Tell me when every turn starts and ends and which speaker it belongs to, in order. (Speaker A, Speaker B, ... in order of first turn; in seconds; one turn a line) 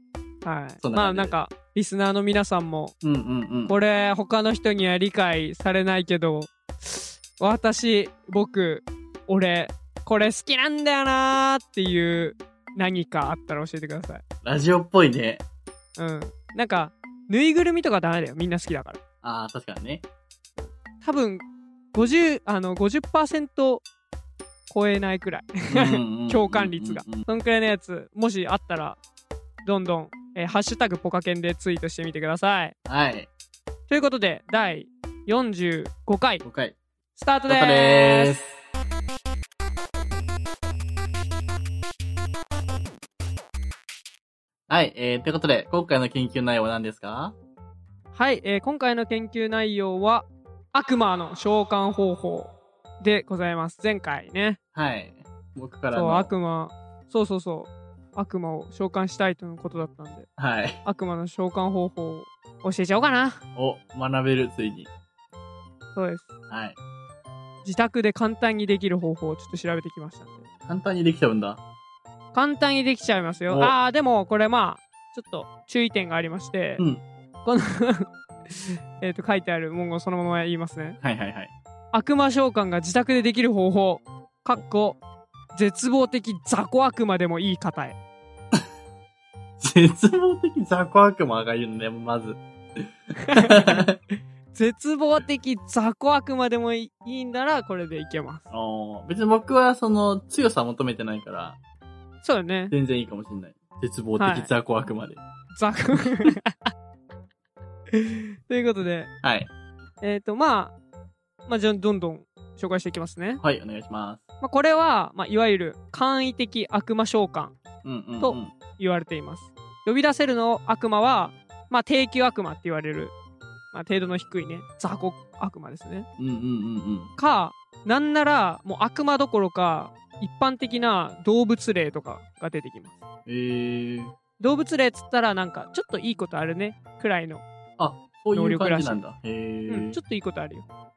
Speaker A: 0.4-3.0
Speaker B: 0.8-1.4
Speaker B: 3.0-3.8
Speaker A: 3.7-14.2
Speaker B: 14.4-15.4
Speaker A: 16.0-19.0
Speaker B: 19.2-20.0
Speaker A: 20.6-23.8
Speaker A: 24.7-29.0
Speaker B: 25.7-27.3
Speaker A: 29.6-32.7
Speaker B: 32.9-33.3
Speaker A: 33.9-36.4
Speaker B: 36.4-36.8
Speaker A: 37.1-38.4
Speaker B: 37.5-38.5
Speaker B: 44.7-47.4
Speaker A: 48.1-54.6
Speaker B: 54.7-56.3
Speaker A: 55.9-60.3
Speaker B: 60.4-60.8
Speaker A: 60.9-63.4
Speaker B: 63.6-64.9
Speaker A: 65.9-66.3
Speaker B: 66.5-66.8
Speaker A: 67.6-70.5
Speaker B: 70.7-71.6
Speaker A: 72.3-76.8
Speaker B: 73.5-73.8
Speaker B: 76.8-77.0
Speaker A: 77.5-81.0
Speaker B: 81.0-81.5
Speaker A: 81.9-85.0
Speaker A: 85.5-88.0
Speaker B: 89.6-94.0
Speaker A: 93.2-93.9
Speaker A: 94.5-98.5
Speaker B: 98.5-101.6
Speaker A: 102.2-102.7
Speaker B: 102.7-105.2
Speaker A: 104.2-104.5
Speaker A: 105.6-106.7
Speaker A: 107.9-109.1
Speaker B: 109.2-109.5
Speaker A: 110.0-110.7
Speaker A: 111.5-113.4
Speaker B: 113.4-114.2
Speaker A: 114.4-117.5
Speaker B: 117.8-118.5
Speaker A: 118.2-123.1
Speaker A: 123.7-126.1
Speaker B: 126.2-127.1
Speaker A: 127.2-133.0
Speaker B: 133.3-134.2
Speaker A: 134.4-137.4
Speaker B: 137.8-140.0
Speaker A: 138.3-139.0
Speaker A: 139.7-140.7